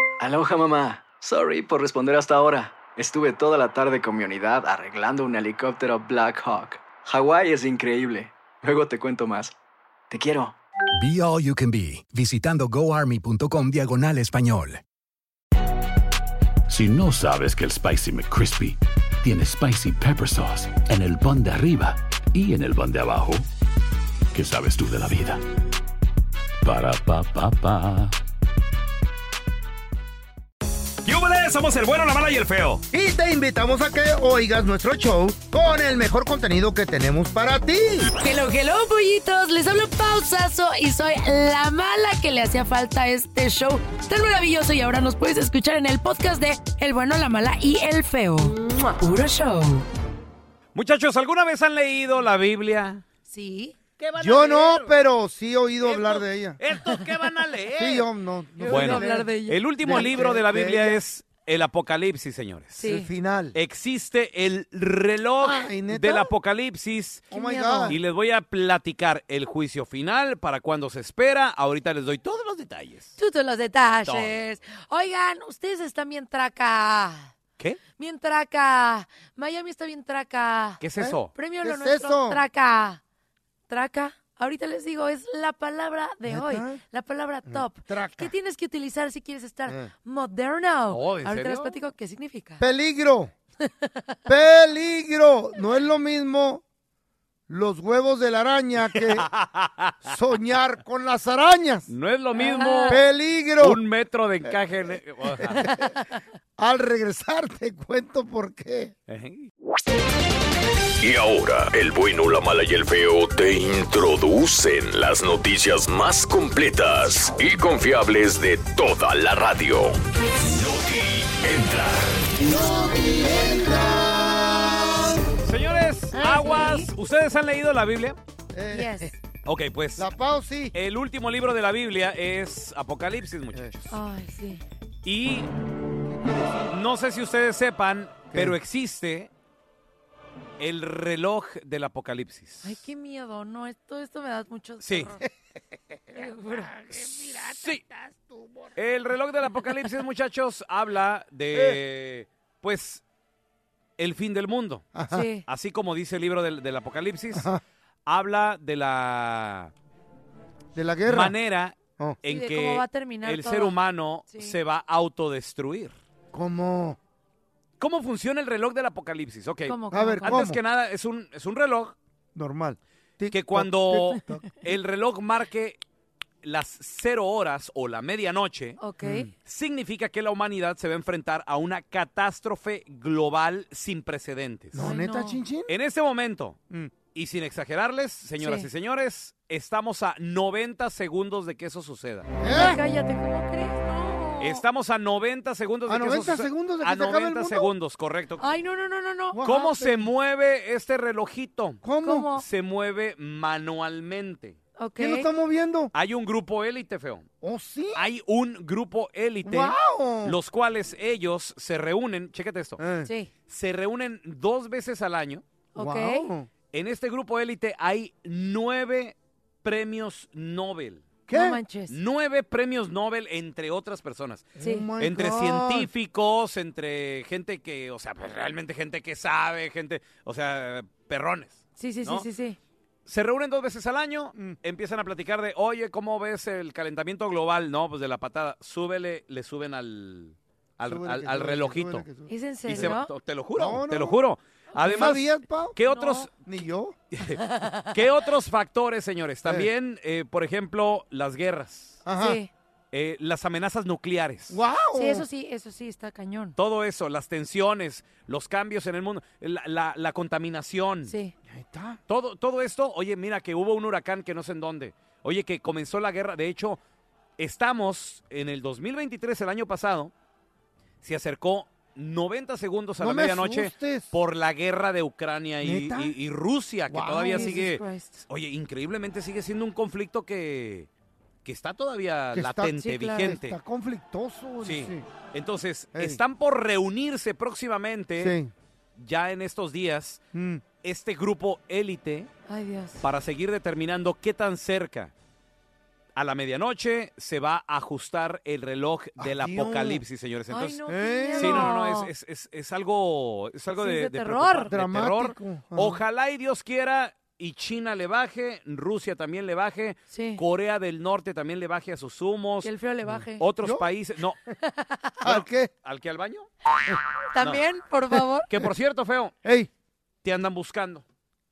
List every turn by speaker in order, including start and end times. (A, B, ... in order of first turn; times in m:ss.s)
0:00.2-0:09.5 A
0:10.1-0:10.6 A
0:10.9-0:14.8 B
0:16.7-0:23.4 C
0:24.3-0:25.4 C
0:26.6-0:28.1 C
0:31.0-0:32.8 D
0:32.9-0:38.1 E
0:38.2-0:49.9 F
0:50.8-0:53.0 D
0:53.3-0:53.8 F
0:54.0-0:54.9 D
0:54.2-0:56.6 E
0:55.8-0:58.1 D
0:57.8-0:59.3 E
0:58.6-1:00.1 F
0:58.7-1:02.8 D
0:59.8-1:01.0 E
1:02.8-1:03.1 F
1:02.8-1:03.6 E
1:03.5-1:07.3 D
1:05.4-1:06.3 E
1:07.3-1:08.0 F
1:07.3-1:08.0 E
1:07.9-1:13.1 D
1:13.2-1:17.3 F
1:14.1-1:14.4 D
1:18.0-1:20.8 F
1:20.8-1:21.3 D
1:21.0-1:22.4 E
1:21.4-1:23.0 F
1:23.7-1:32.6 F
1:26.3-1:26.8 E
1:27.5-1:28.3 E
1:30.9-1:31.8 D
1:32.6-1:33.3 E
1:33.6-1:34.2 F
1:34.3-1:36.6 E
1:37.5-1:39.3 E
1:38.9-1:40.1 D
1:40.0-1:41.9 E
1:41.9-1:43.0 D
1:42.4-1:43.0 F
1:42.9-1:43.8 E
1:43.6-1:45.7 D
1:45.6-1:46.0 F
1:46.6-1:48.9 E
1:49.1-1:49.5 D
1:51.0-2:00.0 G
2:00.6-2:02.0 G
2:02.5-2:04.8 E
2:05.4-2:08.2 D
2:06.1-2:06.9 E
2:06.2-2:06.8 F
2:08.5-2:09.1 E
2:08.7-2:09.2 F
2:09.4-2:10.1 D
2:10.0-2:10.8 E
2:10.7-2:14.0 D
2:13.9-2:14.6 F
2:15.0-2:15.5 D
2:16.1-2:16.7 E
2:16.7-2:19.3 D
2:18.3-2:18.6 E
2:20.6-2:22.8 D
2:22.6-2:25.2 F
2:24.8-2:25.2 D
2:26.1-2:28.7 E
2:26.1-2:26.7 F
2:27.4-2:27.8 D
2:28.8-2:33.0 D
2:34.0-2:37.5 D
2:35.0-2:35.3 E
2:35.1-2:35.4 F
2:37.3-2:37.6 E
2:38.1-2:39.7 D
2:40.8-2:41.4 E
2:41.1-2:46.0 D
2:42.2-2:43.8 F
2:44.3-2:44.6 F
2:46.3-2:47.0 E
2:47.8-2:52.0 D
2:49.7-2:50.5 F
2:49.9-2:50.6 E
2:52.4-2:54.5 E
2:53.3-2:55.8 D
2:56.4-2:58.8 D
2:58.8-2:59.3 F
2:59.0-2:59.3 E
2:59.4-3:04.9 D
3:04.7-3:05.7 E
3:04.8-3:05.4 F
3:05.7-3:06.6 D
3:07.1-3:12.4 D
3:08.4-3:08.7 F
3:12.4-3:12.8 E
3:12.4-3:14.6 F
3:14.4-3:18.5 D
3:15.9-3:17.7 E
3:18.4-3:19.4 F
3:19.3-3:20.1 E
3:19.4-3:21.8 D
3:21.8-3:22.3 E
3:21.9-3:22.4 F
3:22.4-3:24.6 D
3:24.8-3:25.3 F
3:25.0-3:25.9 E
3:25.9-3:27.3 D
3:27.4-3:28.0 E
3:28.0-3:32.8 D
3:29.4-3:30.4 E
3:32.8-3:33.1 E
3:33.0-3:33.3 F
3:33.5-3:35.4 D
3:35.8-3:36.3 F
3:35.8-3:36.5 E
3:36.7-3:41.2 D
3:41.3-3:41.6 E
3:41.3-3:42.0 F
3:41.9-3:52.3 D
3:44.6-3:45.9 E
3:44.6-3:44.9 F
3:51.8-3:52.6 F
3:53.1-4:02.1 D
4:00.8-4:02.9 E
4:02.3-4:03.1 F
4:02.7-4:06.3 D
4:03.6-4:04.2 E
4:04.7-4:05.2 F
4:04.8-4:05.8 E
4:05.9-4:06.3 F
4:06.4-4:07.0 E
4:07.1-4:12.0 D
4:07.4-4:08.0 F
4:12.0-4:12.4 E
4:12.1-4:12.5 F
4:12.9-4:14.6 D
4:14.5-4:15.2 E
4:14.9-4:16.6 F
4:16.6-4:21.1 D
4:21.1-4:21.3 F
4:21.5-4:22.0 E
4:22.1-4:26.8 D
4:27.4-4:30.1 D
4:31.0-4:40.9 D
4:33.0-4:34.1 E
4:35.6-4:36.2 E
4:36.9-4:37.7 E
4:37.3-4:38.2 F
4:41.4-4:43.5 D
4:42.3-4:45.1 E
4:42.8-4:43.3 F
4:44.6-4:48.4 D
4:45.9-4:46.2 E
4:48.2-4:48.5 E
4:49.0-4:50.2 D
4:50.3-4:50.6 E
4:50.8-4:52.3 D
4:52.5-4:53.0 F
4:53.0-4:55.1 D
4:56.2-5:00.8 D
4:59.2-5:00.0 E
5:00.5-5:02.1 F
5:00.9-5:01.8 E
5:01.4-5:12.7 D
5:03.7-5:04.7 F
5:04.7-5:06.0 E
5:10.1-5:10.4 F
5:12.6-5:13.5 F
5:13.1-5:13.9 E
5:13.4-5:14.4 D
5:14.6-5:15.1 F
5:15.2-5:15.7 E
5:15.2-5:16.5 D
5:17.3-5:18.5 F
5:18.1-5:18.7 E
5:18.5-5:19.4 D
5:19.4-5:19.7 E
5:20.2-5:21.0 D